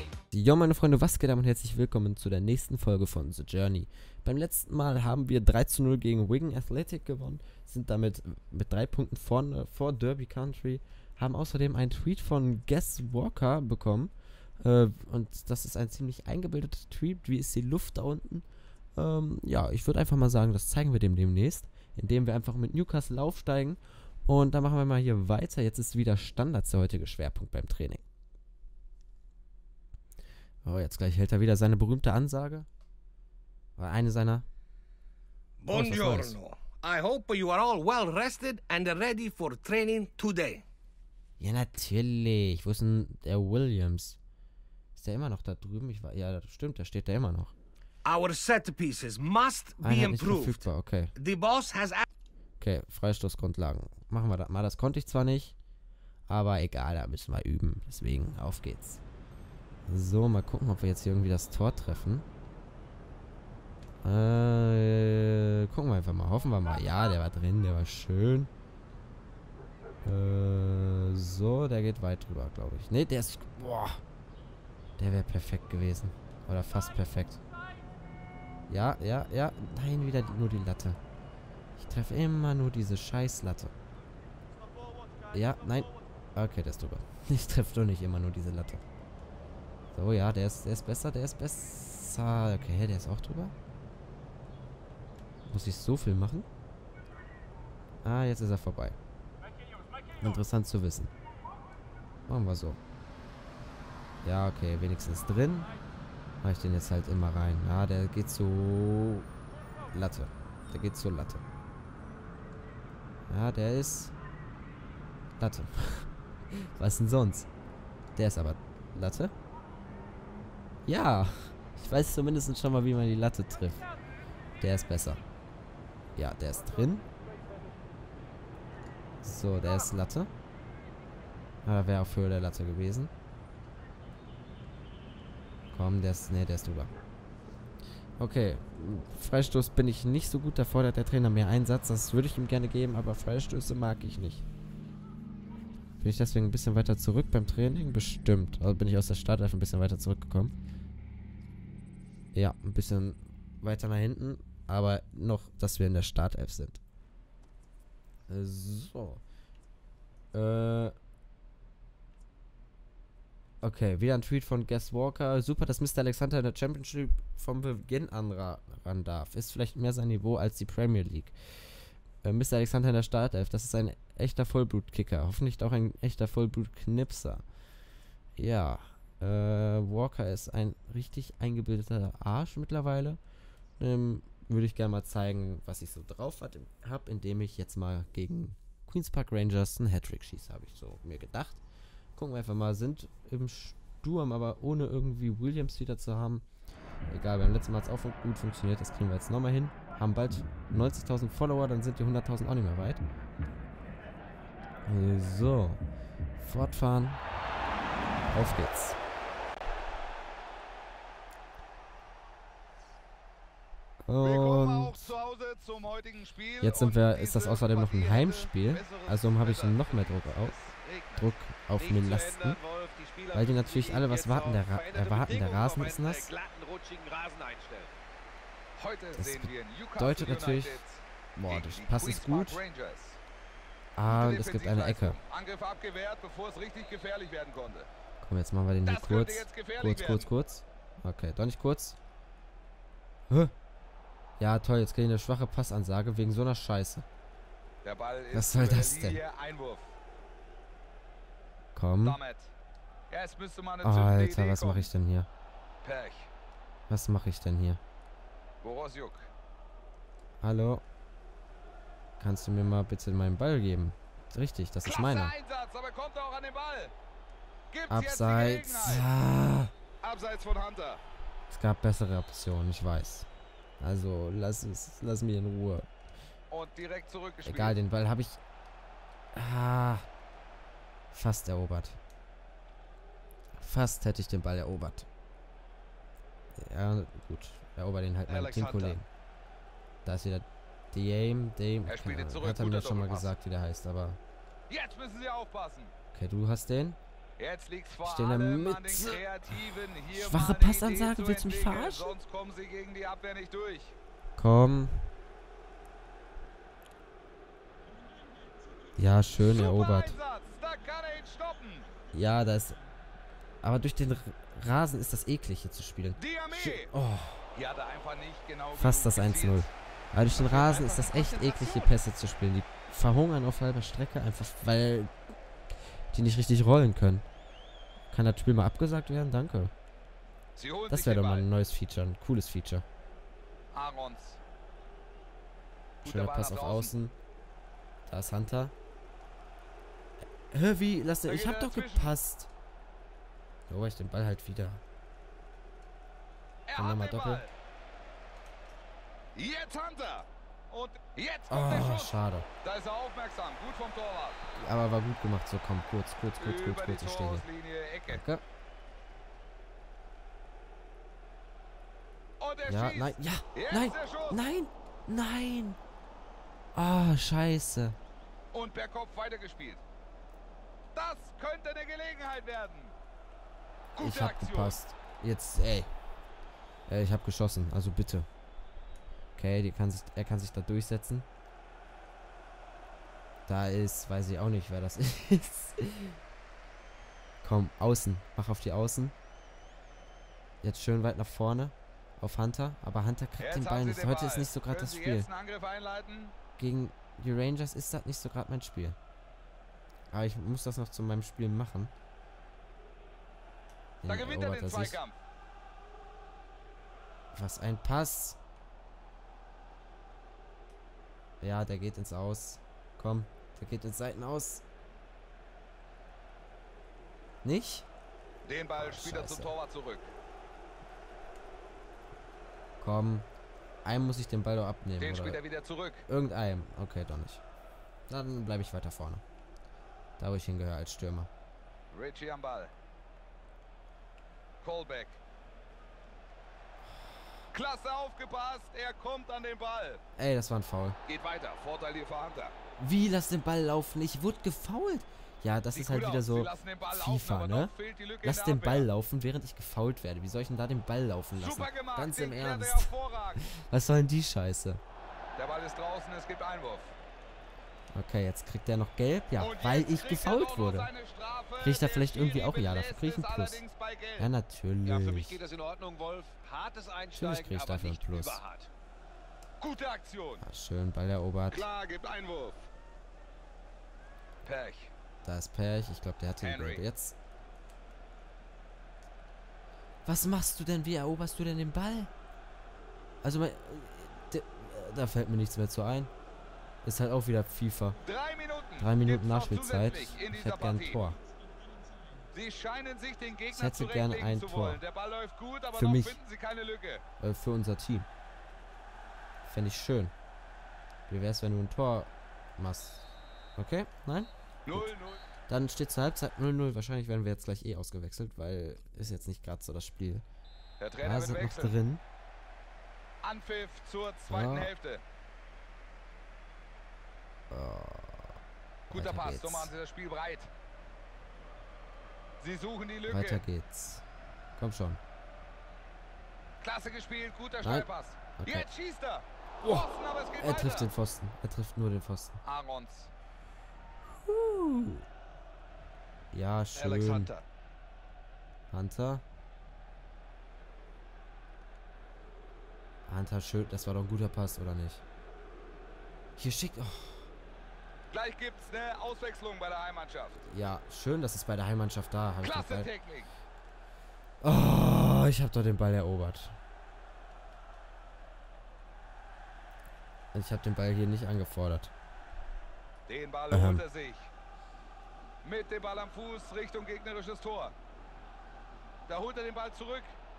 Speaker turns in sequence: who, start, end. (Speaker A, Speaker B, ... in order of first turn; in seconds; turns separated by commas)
Speaker A: 0.3-28.0, Speaker A: 30.6-32.7, Speaker A: 33.8-34.4, Speaker B: 35.6-40.6, Speaker A: 35.7-36.4, Speaker A: 41.4-44.2, Speaker A: 45.0-47.5, Speaker B: 48.0-52.0, Speaker A: 49.8-51.1, Speaker A: 52.6-55.5, Speaker A: 56.3-59.0, Speaker A: 59.9-62.2, Speaker A: 64.0-68.5, Speaker A: 70.0-74.0, Speaker A: 75.0-77.4, Speaker A: 78.7-81.0, Speaker A: 81.8-83.7, Speaker A: 85.3-88.8, Speaker A: 89.9-93.5, Speaker A: 95.5-96.5, Speaker A: 98.0-99.0, Speaker A: 100.2-101.1, Speaker A: 102.3-102.8, Speaker A: 104.2-105.7, Speaker A: 106.4-109.3, Speaker A: 109.9-111.4, Speaker A: 113.3-114.1, Speaker A: 115.4-117.5, Speaker A: 118.2-119.3, Speaker A: 120.8-123.8, Speaker A: 124.6-125.2, Speaker A: 126.2-127.0, Speaker A: 129.2-130.3, Speaker A: 131.6-133.1, Speaker A: 135.7-136.9, Speaker A: 138.2-144.4, Speaker A: 146.0-150.5, Speaker A: 152.3-156.8, Speaker A: 158.3-159.2, Speaker A: 160.3-160.9, Speaker A: 163.6-171.3, Speaker A: 172.2-177.4, Speaker A: 178.4-183.2, Speaker A: 183.8-191.6, Speaker A: 192.2-196.4, Speaker A: 197.1-203.0, Speaker A: 204.8-205.8, Speaker A: 206.4-207.2, Speaker A: 208.3-209.0, Speaker A: 214.1-214.9, Speaker C: 214.2-221.3, Speaker A: 216.6-220.5, Speaker A: 221.2-222.6, Speaker D: 221.8-227.9, Speaker A: 223.3-226.3, Speaker C: 228.8-233.2, Speaker A: 229.1-230.8, Speaker A: 231.3-232.6, Speaker A: 233.9-235.2, Speaker C: 234.1-237.9, Speaker A: 238.2-242.0, Speaker C: 238.8-240.3, Speaker A: 244.4-247.1, Speaker C: 247.8-249.9, Speaker A: 248.3-249.2, Speaker A: 251.7-252.2, Speaker C: 252.0-252.5, Speaker C: 253.1-254.9, Speaker A: 253.8-255.3, Speaker C: 255.8-256.3, Speaker A: 256.9-257.8, Speaker C: 258.6-259.3, Speaker A: 260.4-260.8, Speaker A: 262.2-265.3, Speaker C: 264.8-266.9, Speaker C: 267.7-269.1, Speaker A: 267.9-269.7, Speaker C: 270.0-271.0, Speaker A: 271.5-273.3, Speaker A: 273.8-275.9, Speaker C: 276.5-277.8, Speaker A: 277.4-278.4, Speaker A: 279.3-280.1, Speaker A: 281.1-282.0, Speaker A: 283.6-285.1, Speaker A: 286.6-289.1, Speaker C: 288.3-289.0, Speaker A: 290.0-294.2, Speaker C: 291.9-293.3, Speaker C: 294.7-295.9, Speaker A: 296.1-297.0, Speaker C: 297.4-303.9, Speaker A: 298.0-299.6, Speaker A: 300.1-302.1, Speaker A: 304.4-305.1, Speaker A: 309.0-310.2, Speaker C: 309.4-311.9, Speaker A: 312.1-312.8, Speaker A: 313.6-317.4, Speaker C: 316.2-316.9, Speaker C: 317.5-319.7, Speaker A: 318.7-325.1, Speaker D: 320.4-321.9, Speaker A: 326.1-327.2, Speaker A: 328.1-329.7, Speaker C: 330.5-331.5, Speaker A: 330.9-332.8, Speaker C: 333.7-334.4, Speaker C: 336.0-336.9, Speaker A: 336.0-337.1, Speaker A: 338.1-338.7, Speaker A: 340.5-342.5, Speaker C: 341.2-342.2, Speaker A: 343.7-344.8, Speaker C: 346.7-347.5, Speaker A: 346.7-347.5, Speaker C: 349.3-354.4, Speaker A: 351.5-352.5, Speaker A: 354.5-357.4, Speaker C: 356.4-358.2, Speaker A: 358.1-358.4, Speaker C: 362.4-364.4, Speaker A: 362.7-365.8, Speaker A: 366.7-368.0, Speaker C: 368.5-369.8, Speaker C: 370.9-372.9, Speaker C: 373.9-374.8, Speaker A: 374.0-375.9, Speaker A: 376.9-378.3, Speaker A: 379.4-381.3, Speaker A: 383.5-386.2, Speaker A: 387.4-389.1, Speaker A: 390.6-395.3, Speaker C: 393.4-396.3, Speaker A: 396.6-399.0, Speaker A: 400.1-401.9, Speaker A: 404.0-405.0, Speaker C: 404.1-405.2, Speaker A: 407.3-408.4, Speaker A: 411.4-414.6, Speaker A: 417.4-417.9, Speaker C: 418.4-420.1, Speaker A: 418.8-419.5, Speaker A: 422.8-423.3, Speaker A: 423.8-425.4, Speaker C: 425.0-426.1, Speaker A: 426.1-427.4, Speaker A: 428.1-429.2, Speaker A: 430.2-431.3, Speaker C: 431.9-432.7, Speaker C: 434.6-435.2, Speaker C: 437.5-440.0, Speaker A: 440.1-441.0, Speaker C: 441.1-442.6, Speaker A: 442.8-454.8, Speaker C: 445.7-448.9, Speaker C: 451.3-453.4, Speaker C: 455.4-456.9, Speaker A: 457.9-460.9, Speaker C: 459.4-464.3, Speaker A: 461.6-463.6, Speaker A: 464.2-465.4, Speaker D: 464.8-468.7, Speaker A: 467.1-468.4, Speaker C: 469.6-470.4, Speaker A: 470.4-471.7, Speaker C: 471.5-472.7, Speaker C: 474.4-474.9, Speaker A: 475.2-477.1, Speaker C: 476.4-476.8, Speaker A: 480.0-482.1, Speaker A: 483.2-486.1, Speaker A: 486.8-488.0, Speaker C: 488.0-491.0, Speaker A: 488.8-491.2, Speaker C: 492.3-497.0, Speaker A: 493.5-494.8, Speaker A: 495.7-496.2, Speaker A: 497.2-498.1, Speaker A: 499.4-500.1, Speaker A: 501.1-504.9, Speaker C: 504.6-505.2, Speaker A: 505.5-510.2, Speaker C: 510.8-511.8, Speaker A: 511.0-512.0, Speaker C: 513.2-515.0, Speaker A: 514.3-514.7, Speaker A: 517.5-518.4, Speaker A: 518.9-519.7, Speaker C: 518.9-520.5, Speaker C: 522.4-523.4, Speaker A: 523.1-524.0, Speaker A: 524.5-525.0, Speaker C: 526.6-530.9, Speaker A: 527.6-528.7, Speaker A: 529.6-532.4, Speaker C: 532.4-533.1, Speaker A: 534.2-535.0, Speaker A: 536.3-537.3, Speaker C: 536.7-537.5, Speaker A: 538.7-539.2, Speaker A: 543.0-545.0, Speaker A: 546.4-547.3, Speaker C: 548.1-550.4, Speaker A: 550.4-552.9, Speaker C: 552.4-553.3, Speaker A: 554.4-556.5, Speaker A: 560.3-561.9, Speaker C: 563.1-564.3, Speaker A: 563.5-563.8, Speaker C: 565.4-567.7, Speaker C: 569.1-570.2